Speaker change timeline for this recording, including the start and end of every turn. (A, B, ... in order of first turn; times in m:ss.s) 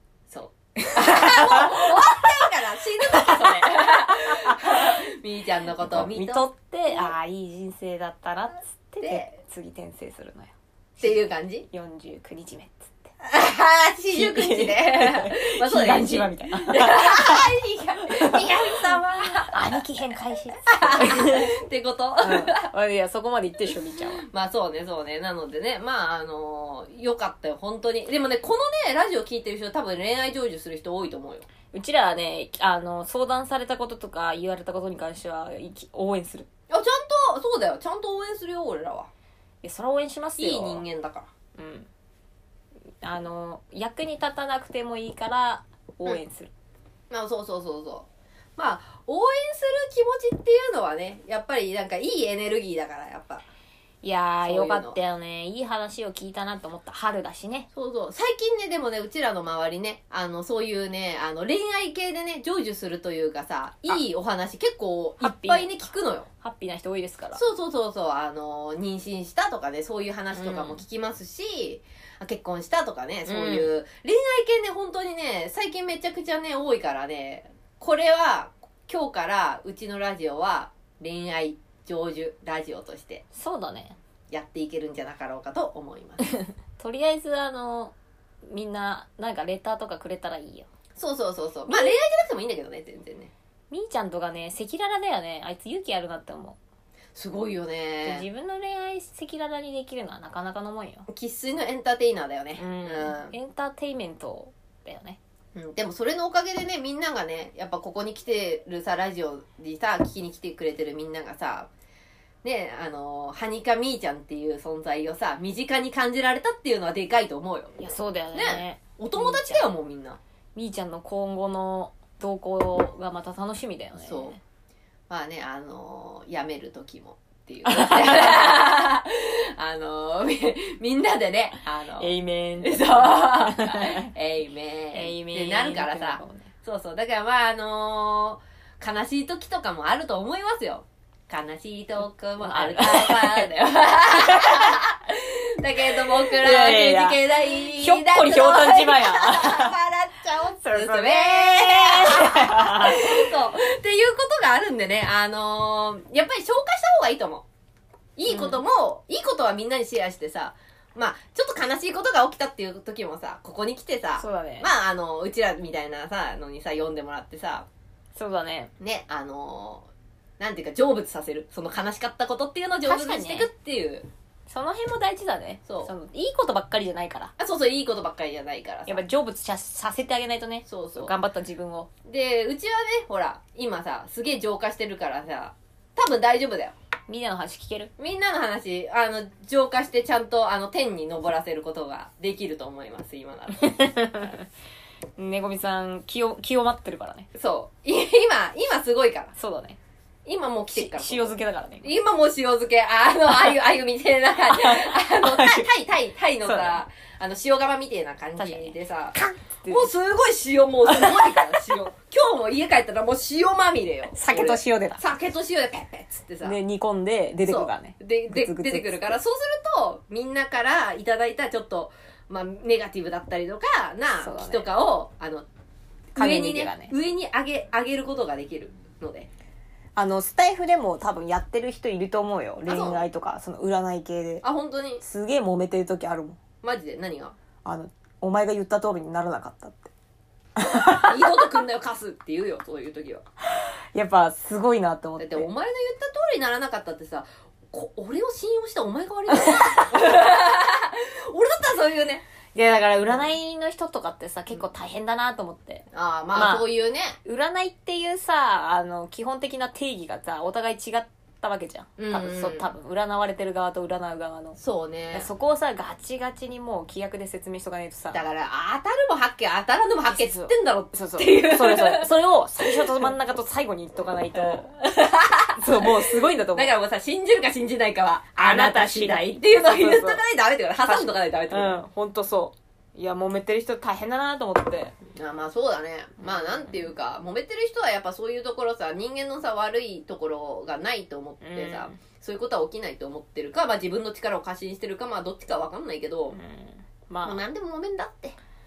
0:00.3-0:07.1 A
0:00.8-0:02.3 B
0:03.1-0:05.0 B
0:05.8-0:13.1 B
0:09.0-0:09.3 A
0:11.0-0:11.7 A
0:13.2-0:19.6 A
0:14.1-0:17.5 B
0:18.1-0:21.6 B
0:20.7-0:22.7 A
0:22.2-0:24.3 B
0:24.2-0:31.5 A
0:31.7-0:36.5 B
0:36.7-0:39.1 A
0:39.6-0:40.8 B
0:40.4-0:41.3 A
0:41.6-0:41.9 B
0:43.0-0:46.5 B
0:47.1-0:53.4 A
0:54.0-0:57.7 B
0:54.4-0:55.0 A
0:57.7-1:06.3 A
1:05.2-1:07.4 B
1:07.4-1:23.2 A
1:10.3-1:10.8 B
1:13.3-1:13.7 B
1:23.3-1:24.0 B
1:24.3-1:26.2 A
1:26.4-1:28.0 B
1:28.5-1:30.7 B
1:31.0-1:33.3 A
1:31.7-1:31.9 B
1:33.7-1:36.6 B
1:37.2-1:38.3 A
1:38.0-1:41.1 B
1:41.1-1:43.3 A
1:42.6-1:45.2 B
1:45.6-1:51.7 A
1:52.4-1:57.8 A
1:57.8-1:59.7 B
1:58.4-2:00.2 A
2:00.6-2:04.4 B
2:04.0-2:04.4 A
2:05.1-2:37.5 A
2:07.7-2:08.5 B
2:12.0-2:14.1 B
2:14.9-2:16.5 B
2:22.4-2:23.5 B
2:24.1-2:24.8 B
2:26.0-2:29.8 B
2:30.6-2:33.3 B
2:38.2-2:47.7 A
2:38.3-2:38.6 B
2:44.2-2:44.7 B
2:48.2-2:48.7 B
2:48.8-2:49.9 A
2:50.4-2:54.1 A
2:52.8-2:53.5 B
2:54.5-2:57.3 B
2:55.7-2:55.9 A
2:57.4-2:59.0 A
2:58.9-3:01.9 B
3:00.7-3:01.1 A
3:02.1-3:06.8 A
3:07.1-3:07.9 B
3:08.0-3:13.7 A
3:13.6-3:14.5 B
3:15.2-3:17.3 B
3:17.4-3:19.3 A
3:19.4-3:19.8 B
3:20.2-3:29.2 A
3:20.7-3:21.9 B
3:24.5-3:25.7 B
3:26.4-3:26.8 B
3:28.4-3:29.9 B
3:29.7-3:36.6 A
3:30.9-3:31.7 B
3:34.1-3:35.0 B
3:36.4-3:39.2 B
3:37.5-3:45.5 A
3:44.2-3:44.7 B
3:46.2-3:49.3 A
3:46.2-3:46.9 B
3:50.0-3:54.5 B
3:52.7-3:53.0 A
3:54.4-3:55.0 A
3:55.0-3:56.4 B
3:56.6-3:57.4 A
3:57.6-3:59.9 B
4:00.6-4:01.4 B
4:00.9-4:03.2 A
4:03.5-4:05.5 B
4:05.2-4:12.2 A
4:09.3-4:09.9 B
4:12.6-4:16.7 B
4:13.1-4:13.3 A
4:15.9-4:17.2 A
4:17.2-4:24.6 B
4:22.0-4:22.7 A
4:24.6-4:25.3 A
4:25.1-4:28.3 B
4:28.1-4:33.1 A
4:30.1-4:34.7 B
4:34.3-4:35.9 A
4:35.6-4:36.7 B
4:36.5-4:41.8 A
4:38.4-4:40.2 B
4:40.9-4:45.0 B
4:45.2-4:56.4 A
4:46.2-4:46.7 B
4:51.4-4:52.0 B
4:56.3-4:57.4 B
4:57.2-4:58.4 A